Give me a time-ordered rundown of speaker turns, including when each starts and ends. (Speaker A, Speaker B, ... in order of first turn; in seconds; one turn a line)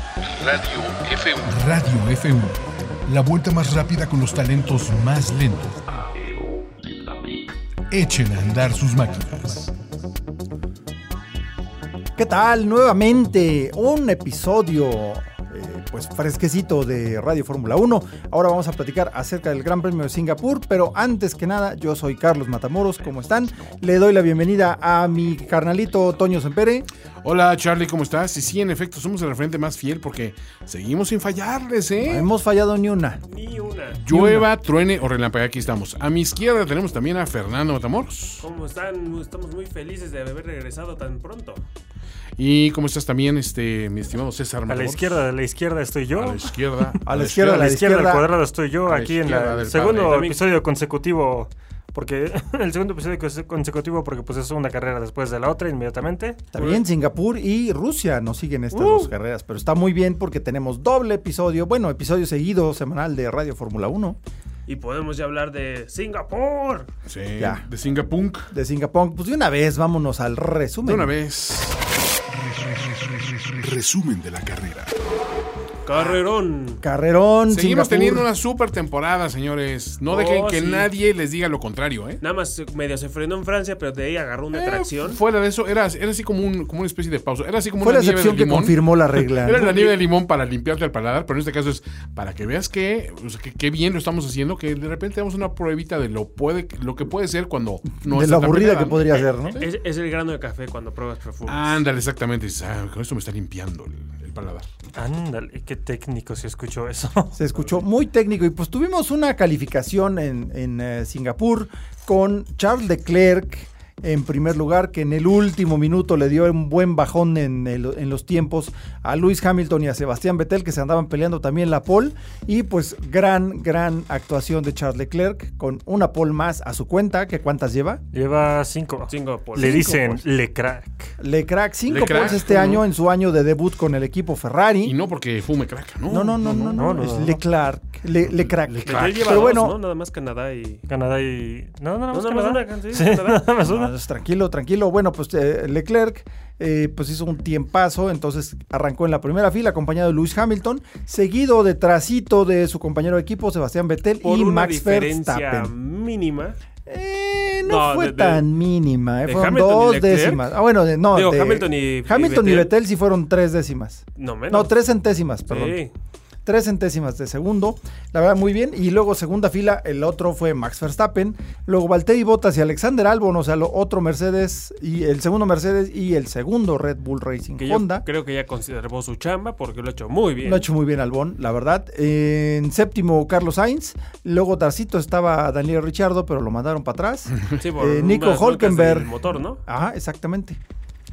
Speaker A: 0.4-5.8
Speaker B: 1.4-2.3
Speaker B: 3.8-5.5
Speaker A: 7.9-9.7
Speaker B: 8.1-8.5
Speaker C: 12.2-26.9
Speaker B: 27.2-32.3
Speaker C: 32.0-33.2
Speaker D: 33.3-34.0
Speaker B: 34.0-38.4
Speaker C: 34.1-34.5
Speaker D: 38.4-41.6
Speaker B: 42.4-45.2
Speaker E: 44.7-46.5
Speaker B: 46.1-47.7
Speaker C: 47.0-48.2
Speaker E: 47.4-56.8
Speaker B: 48.9-50.2
Speaker D: 49.7-50.4
Speaker C: 56.5-64.2
Speaker D: 58.7-59.1
Speaker D: 64.7-66.9
Speaker B: 67.1-68.5
Speaker C: 67.4-67.7
Speaker C: 68.5-71.1
Speaker B: 70.8-71.8
Speaker B: 72.7-74.9
Speaker A: 73.8-74.7
Speaker D: 75.8-76.8
Speaker C: 75.9-76.2
Speaker C: 76.8-78.3
Speaker B: 77.5-82.2
Speaker D: 80.1-80.9
Speaker D: 82.2-85.2
Speaker B: 84.5-99.7
Speaker C: 87.8-90.0
Speaker C: 98.0-99.6
Speaker D: 99.6-101.8
Speaker B: 101.5-104.7
Speaker E: 104.9-107.3
Speaker C: 107.4-128.0
Speaker E: 128.1-131.1
Speaker D: 129.1-130.2
Speaker C: 129.6-130.0
Speaker C: 131.2-134.9
Speaker B: 131.9-132.8
Speaker B: 134.8-136.9
Speaker C: 136.1-139.8
Speaker E: 136.7-137.4
Speaker B: 138.6-139.6
Speaker D: 138.8-140.8
Speaker E: 140.9-143.9
Speaker D: 142.1-143.6
Speaker C: 143.6-155.7
Speaker D: 154.2-156.6
Speaker C: 156.9-165.8
Speaker D: 157.7-158.5
Speaker D: 159.2-160.5
Speaker D: 161.1-162.7
Speaker D: 164.2-164.7
Speaker D: 165.5-165.9
Speaker C: 166.4-178.0
Speaker D: 177.6-180.7
Speaker C: 180.4-190.6
Speaker D: 187.6-189.6